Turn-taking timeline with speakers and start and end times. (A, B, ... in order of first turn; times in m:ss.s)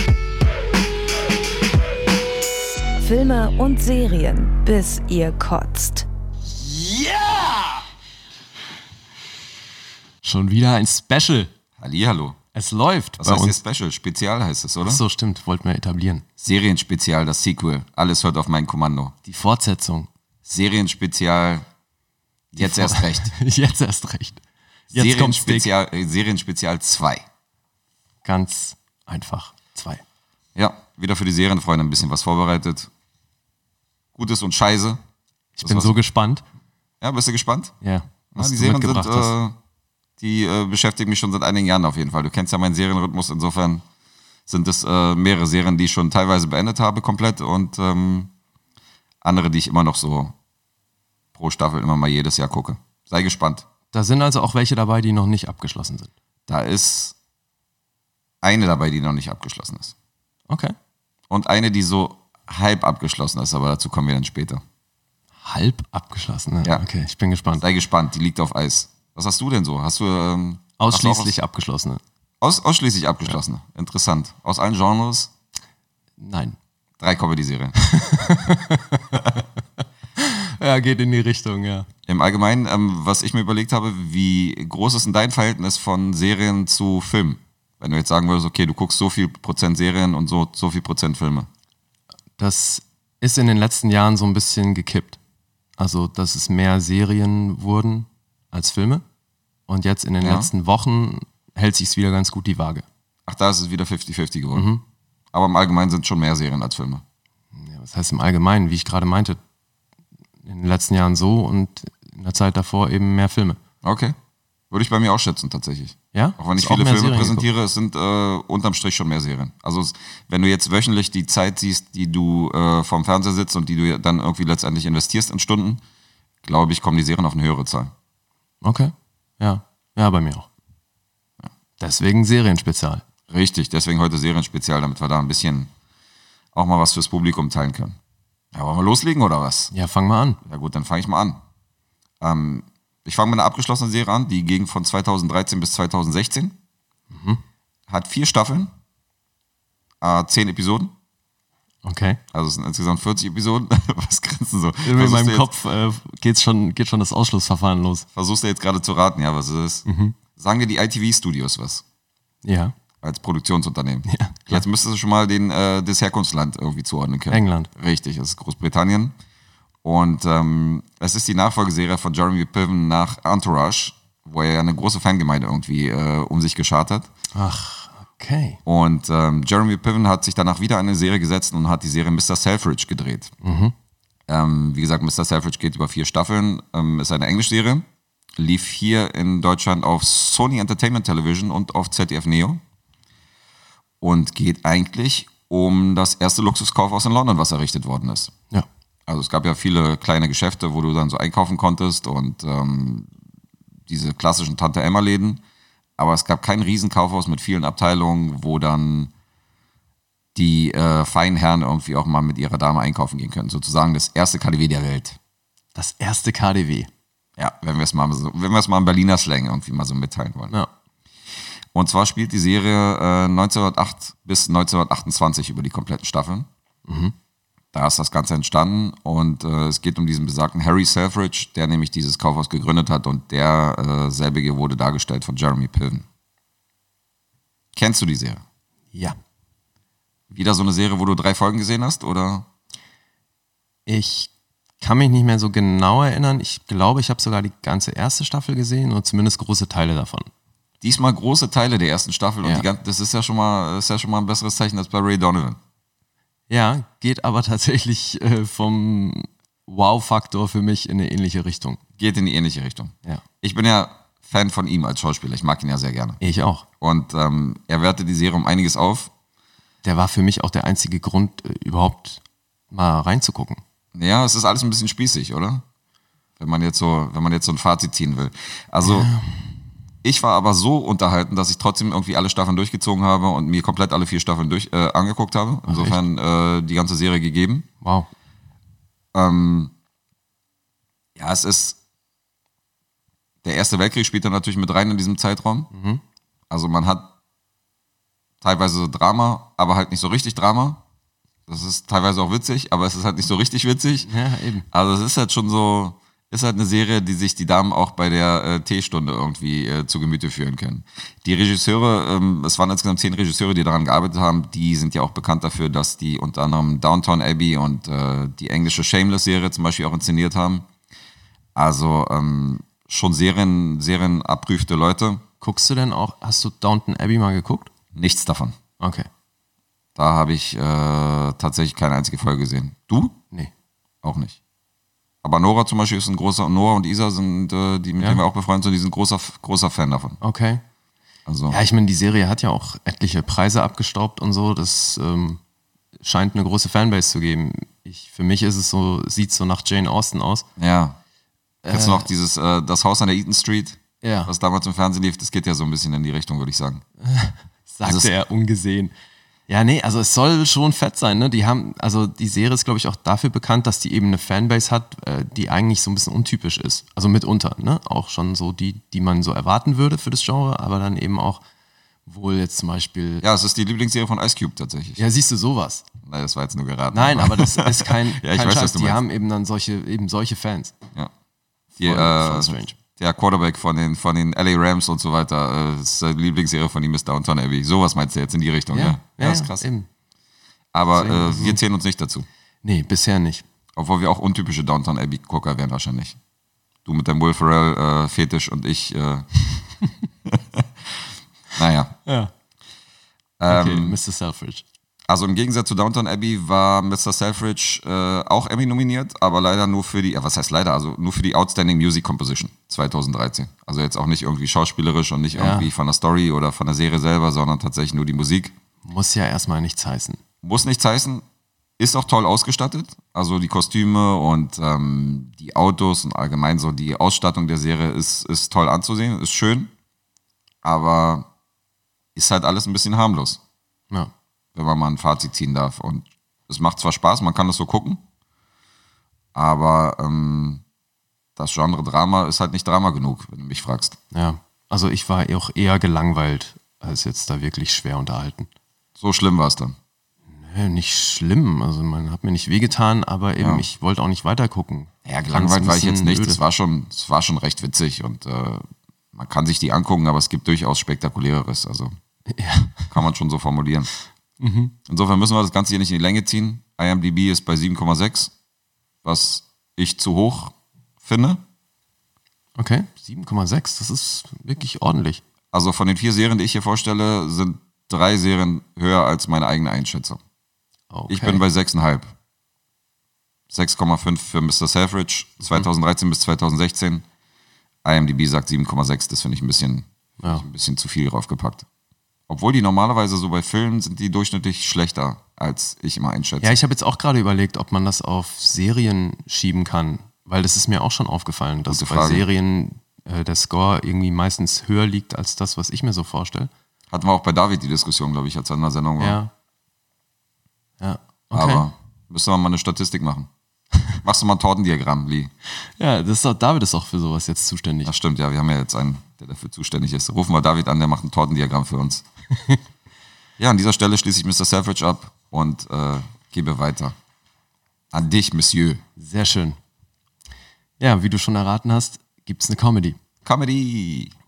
0:03.0-0:06.0 A
0:10.2-0:11.5 B
0:11.8-0:12.4 C
0:12.5-0:13.6 B
0:13.2-0:15.0 C
0:14.8-0:16.2 B
0:16.4-0:19.2 C
0:19.3-0:20.1 B
0:20.5-0:21.7 C
0:22.5-0:23.4 C
0:22.6-0:25.7 B
0:24.9-0:27.3 C
0:28.2-0:30.0 B
0:30.6-0:32.9 C
0:34.2-0:35.0 C
0:35.6-0:36.4 B
0:35.6-0:35.9 C
0:37.0-0:37.7 C
0:37.8-0:39.3 B
0:38.4-0:39.6 C
0:40.2-0:43.8 C
0:44.5-0:48.3 C
0:49.2-0:50.3 C
0:51.4-0:53.7 C
0:53.9-0:56.1 B
0:56.5-0:57.2 C
0:58.4-0:59.9 C
1:00.5-1:00.8 B
1:01.3-1:04.6 C
1:05.4-1:07.6 B
1:07.6-1:11.4 C
1:10.8-1:12.0 B
1:12.4-1:15.3 C
1:16.2-1:16.6 B
1:17.0-1:17.8 C
1:17.8-1:19.4 B
1:20.2-1:21.9 B
1:22.1-1:31.5 C
1:32.4-1:35.2 B
1:35.8-1:39.0 B
1:39.7-1:42.8 B
1:40.2-1:40.5 C
1:43.3-1:44.7 C
1:44.5-1:44.8 B
1:45.3-1:47.0 C
1:47.6-1:49.4 B
1:50.4-1:53.6 B
1:53.8-1:54.2 C
1:54.7-2:05.8 C
1:56.1-1:57.5 B
2:06.4-2:07.9 C
2:08.6-2:10.5 B
2:11.8-2:13.0 B
2:13.3-2:15.7 C
2:16.5-2:18.0 C
2:18.5-2:19.7 C
2:19.7-2:20.4 B
2:20.5-2:21.4 C
2:22.2-2:26.6 C
2:27.1-2:27.4 B
2:27.9-2:28.7 C
2:30.0-2:30.9 C
2:31.8-2:32.2 B
2:32.3-2:35.5 C
2:34.8-2:38.1 B
2:38.2-2:39.8 C
2:39.9-2:40.2 B
2:40.4-2:41.8 C
2:42.4-2:42.7 B
2:43.0-2:49.1 C
2:44.1-2:44.6 B
2:47.3-2:47.7 B
2:49.8-2:57.1 C
2:57.3-2:58.6 B
2:58.6-3:03.3 C
3:03.4-3:03.7 B
3:04.3-3:07.9 C
3:08.4-3:12.6 C
3:14.0-3:18.3 C
3:19.1-3:23.1 C
3:23.9-3:25.4 C
3:26.0-3:29.1 C
3:30.4-3:35.2 C
3:35.8-3:36.9 B
3:37.4-3:40.6 C
3:41.7-3:46.5 C
3:46.9-3:47.1 B
3:47.7-3:56.0 C
3:57.8-3:58.4 C
4:00.3-4:02.5 C
4:03.9-4:10.3 B
4:10.8-4:15.6 C
4:16.5-4:21.8 B
4:22.0-4:26.2 C
4:26.2-4:26.6 B
4:26.8-4:29.1 C
4:29.8-4:33.6 B
4:33.9-4:35.6 C
4:36.4-4:39.1 C
4:38.8-4:39.4 B
4:40.0-4:47.7 C
4:45.7-4:46.0 B
4:47.8-4:48.1 B
4:49.1-4:49.7 C
4:51.2-4:51.8 C
4:53.4-4:55.7 C
4:55.7-4:56.0 B
4:56.5-4:57.1 C
4:58.4-5:00.8 C
5:01.5-5:04.1 C
5:04.0-5:04.7 B
5:04.7-5:20.7 C
5:21.6-5:25.2 C
5:25.4-5:27.7 B
5:28.0-5:28.6 C
5:28.8-5:29.1 B
5:30.0-5:33.2 C
5:34.0-5:34.4 C
5:35.2-5:40.2 C
5:38.0-5:38.2 B
5:40.2-5:40.6 B
5:41.3-5:41.6 C
5:41.5-5:45.4 B
5:46.0-5:50.4 B
5:50.6-5:51.0 C
5:51.6-5:52.1 B
5:51.7-5:56.8 C
5:54.0-5:54.3 B
5:57.0-5:58.9 B
5:57.8-5:58.1 C
5:59.5-6:11.4 B
6:12.1-6:13.2 B
6:13.2-6:15.0 C
6:15.0-6:15.9 B
6:16.1-6:19.0 C
6:16.9-6:20.8 B
6:21.8-6:29.7 C
6:21.8-6:22.8 B
6:28.7-6:29.9 B
6:30.7-6:32.3 C
6:30.9-6:31.6 B
6:32.6-6:33.4 B
6:33.8-6:36.2 C
6:36.8-6:39.3 C
6:40.3-6:41.9 C
6:42.1-6:42.3 B
6:43.4-6:44.0 C
6:43.5-6:44.6 B
6:45.1-6:58.6 C
6:55.3-6:55.7 B
6:58.8-7:00.2 B
7:00.4-7:01.2 C
7:01.8-7:09.7 C
7:10.6-7:11.3 C
7:12.2-7:13.4 C
7:14.6-7:18.0 C
7:19.3-7:20.6 C
7:21.4-7:24.0 C
7:24.1-7:28.5 B
7:29.0-7:29.8 C
7:30.3-7:36.4 B
7:35.0-7:41.9 C
7:42.3-7:42.9 B
7:42.9-7:43.9 C
7:44.4-7:44.8 B
7:44.9-7:48.3 C
7:49.0-7:51.4 C
7:52.6-7:55.2 B
7:55.5-8:00.2 C
8:00.9-8:01.4 B
8:01.1-8:02.1 C
8:03.5-8:07.0 C
8:07.8-8:11.7 C
8:12.3-8:16.6 C
8:16.4-8:26.5 B
8:21.7-8:22.3 C
8:26.9-8:29.2 C
8:29.0-8:29.3 B
8:30.8-8:31.7 B
8:31.3-8:33.3 C
8:34.0-8:35.3 C
8:35.8-8:37.9 B
8:37.8-8:42.0 C
8:43.4-8:47.0 C
8:47.9-8:48.8 C
8:49.0-8:49.6 B
8:50.8-8:53.0 B
8:53.2-8:54.1 C